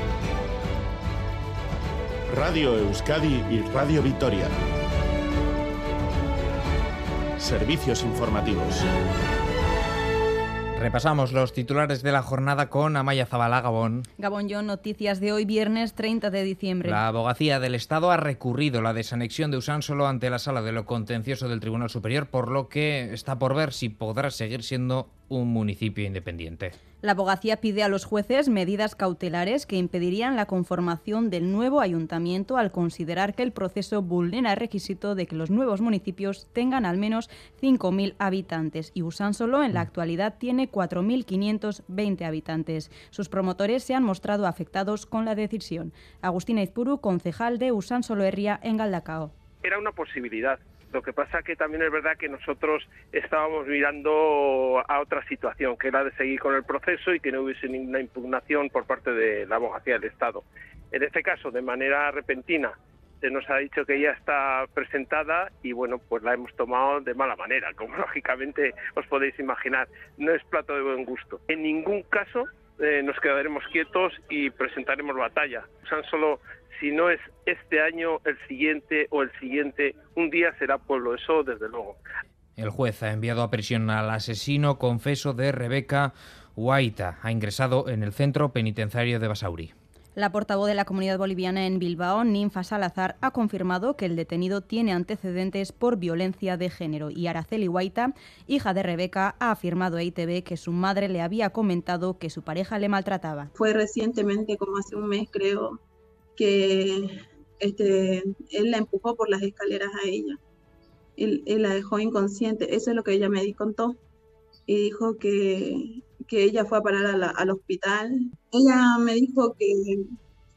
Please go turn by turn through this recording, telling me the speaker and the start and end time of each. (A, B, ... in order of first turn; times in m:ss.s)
0:02.3-0:04.5 A
0:07.4-0:08.8 A
0:10.7-0:14.1 B
0:14.2-0:17.0 C
0:16.8-0:26.7 B
0:27.0-0:49.3 C
0:49.6-1:22.0 D
1:22.6-1:29.7 B
1:30.2-1:43.5 C
1:43.5-1:45.8 E
1:46.4-1:50.4 E
1:51.2-1:54.0 E
1:54.7-2:00.2 E